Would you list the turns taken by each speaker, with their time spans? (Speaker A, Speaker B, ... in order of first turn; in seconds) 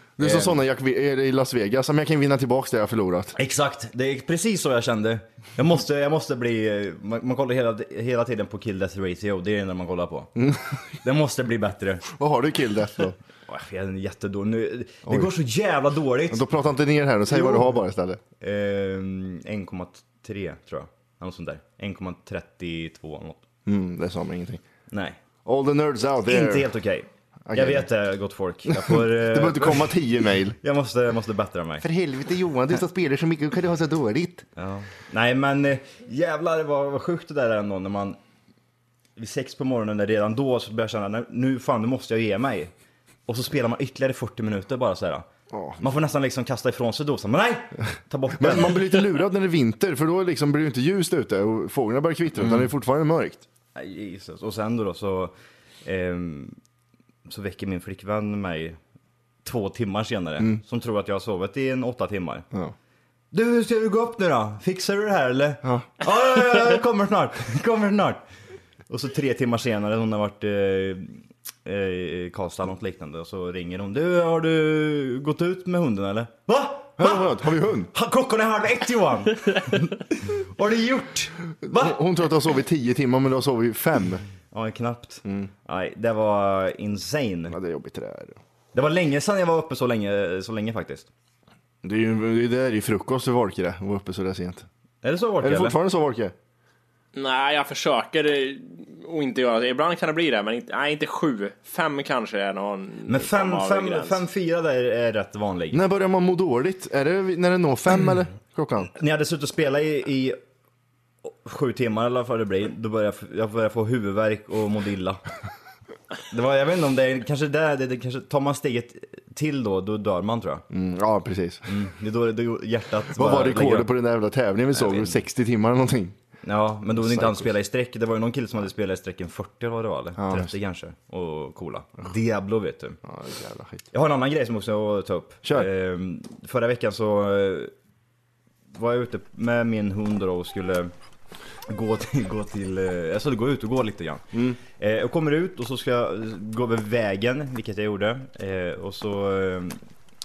Speaker A: 0.2-3.4, 10.4-10.6, 12.1-13.2, 16.3-18.2, 23.7-24.6, 25.4-26.7, 27.5-27.9, 28.7-30.6, 31.8-34.5, 45.5-45.9, 48.4-53.5, 77.0-77.9, 81.6-84.2, 85.2-85.5, 87.5-88.4, 91.8-94.7, 95.4-96.3, 105.7-108.9, 120.7-121.7, 123.2-126.2, 127.0-127.5, 130.2-130.5, 133.0-133.8, 144.3-144.6
Speaker B: 0.2-0.6, 3.4-12.1, 13.5-16.4, 17.4-17.6, 18.4-23.4, 24.9-25.2, 26.3-30.0, 30.6-31.9, 34.6-38.2, 39.2-42.7, 43.3-45.3, 45.8-49.0, 53.8-55.3, 55.9-56.6, 57.3-58.8, 59.4-62.5, 63.3-68.2, 68.9-82.0, 84.5-87.6, 88.7-91.1, 95.0-95.8, 103.1-105.8, 108.9-110.4, 111.2-115.2, 116.3-120.7, 121.7-123.9, 124.7-125.2, 126.4-133.0, 133.9-137.7, 138.7-140.9, 141.7-149.8
Speaker C: 97.1-104.2